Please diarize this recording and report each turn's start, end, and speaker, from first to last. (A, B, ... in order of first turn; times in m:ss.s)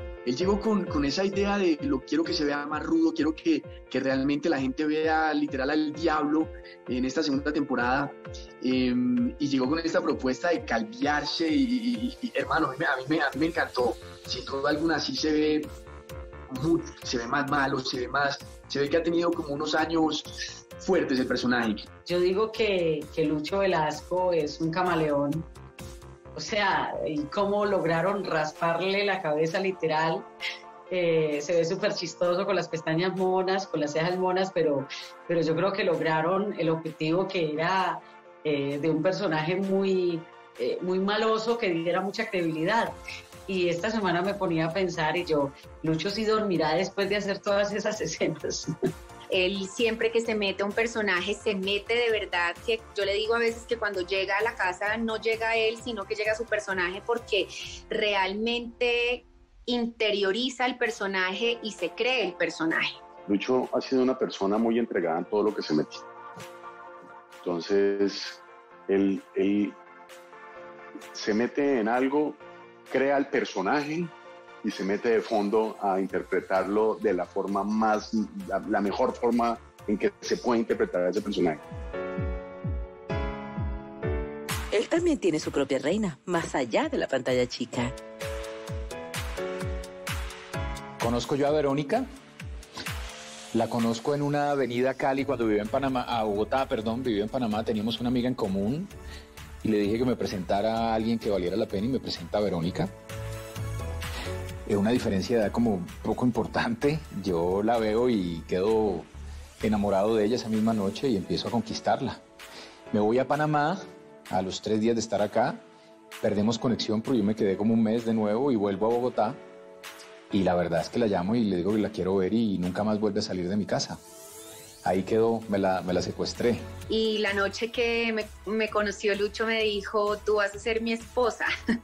0:00.3-0:15.7 A
0:16.5-0:21.9 A
0:22.1-0:25.5 B
0:26.4-0:30.3 B
0:30.9-0:42.9 B
0:43.5-0:48.7 B
0:49.3-1:03.0 C
1:03.3-1:06.0 D
1:07.4-1:09.8 D
1:11.1-1:12.4 D
1:12.9-1:14.1 D
1:14.6-1:21.6 D
1:24.7-1:27.9 E
1:31.0-1:32.1 F
1:33.5-1:38.9 F
1:39.6-1:42.9 F
1:44.7-1:49.1 F
1:49.6-1:52.2 F
1:52.9-1:55.6 F
1:56.2-1:59.4 F
2:00.3-2:04.0 F
2:04.8-2:06.7 F
2:06.9-2:11.5 C